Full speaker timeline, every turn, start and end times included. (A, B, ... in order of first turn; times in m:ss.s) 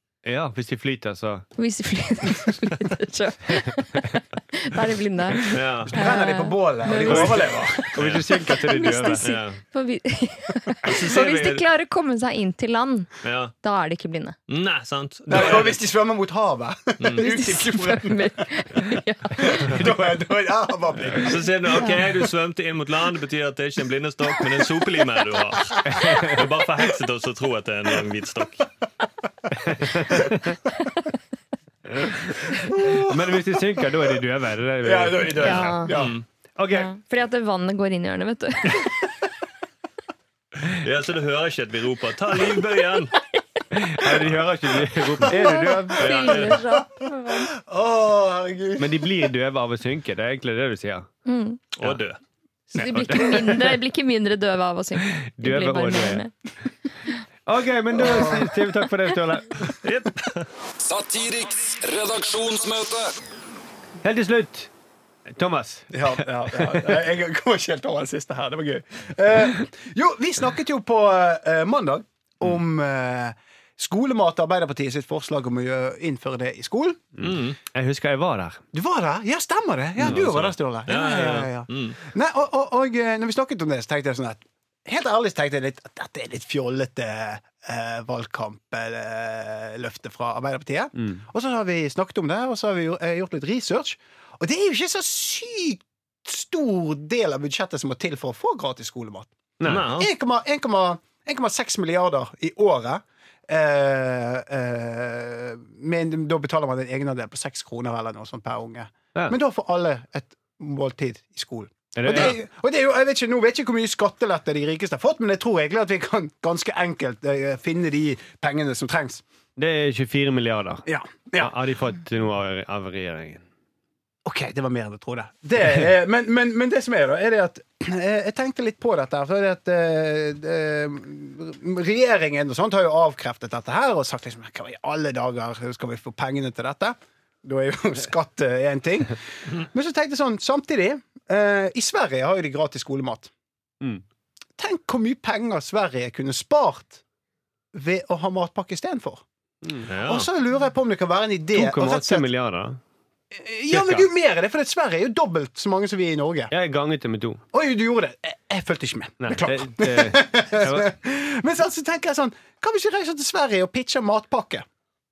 0:00.2-0:01.4 A
0:01.6-0:07.9 B
0:05.5-0:06.0 C
0:05.8-0:07.9 D
0:07.0-0:09.2 A
0:08.0-0:08.2 C
0:08.4-0:14.4 B
0:09.2-0:09.6 C
0:10.8-0:11.6 C
0:13.2-0:13.5 C
0:14.5-0:15.8 C
0:15.3-0:18.2 D
0:17.0-0:17.3 C
0:17.1-0:19.8 B
0:19.4-0:22.0 D
0:21.1-0:28.7 C
0:25.9-0:26.4 A
0:29.6-0:30.5 A
0:31.9-0:35.8 A
0:32.5-0:33.9 D
0:34.8-0:36.1 D
0:35.4-0:35.9 B
0:35.9-0:36.2 C
0:36.6-0:36.9 A
0:36.7-0:39.0 B
0:40.6-0:43.1 C
0:43.7-0:46.3 A
0:45.3-0:47.5 B
0:46.0-0:46.6 C
0:47.4-0:49.2 D
0:48.8-0:51.1 A
0:51.2-0:51.6 B
0:51.8-0:52.2 C
0:52.7-0:53.8 A
0:52.7-0:56.3 B
0:55.2-0:56.2 A
0:57.4-0:59.7 A
0:58.0-0:58.5 D
0:59.8-1:00.5 C
1:00.8-1:03.1 E
1:04.0-1:04.7 A
1:05.3-1:07.0 A
1:05.9-1:17.0 D
1:17.2-1:18.6 A
1:17.2-1:17.6 C
1:18.7-1:39.3 D
1:20.0-1:22.0 C
1:39.6-1:39.9 A
1:39.6-1:40.1 C
1:40.0-1:59.2 D
1:52.0-1:52.4 A
1:59.6-2:00.8 A
2:00.8-2:01.5 D
2:01.4-2:03.4 A
2:04.2-2:23.3 D
2:24.6-2:27.0 D
2:27.7-2:29.2 D
2:29.9-2:30.3 C
2:30.0-2:32.2 D
2:31.5-2:32.8 A
2:33.3-2:36.5 D
2:33.7-2:34.1 A
2:36.5-2:37.4 A
2:37.5-2:44.6 D
2:39.2-2:40.8 A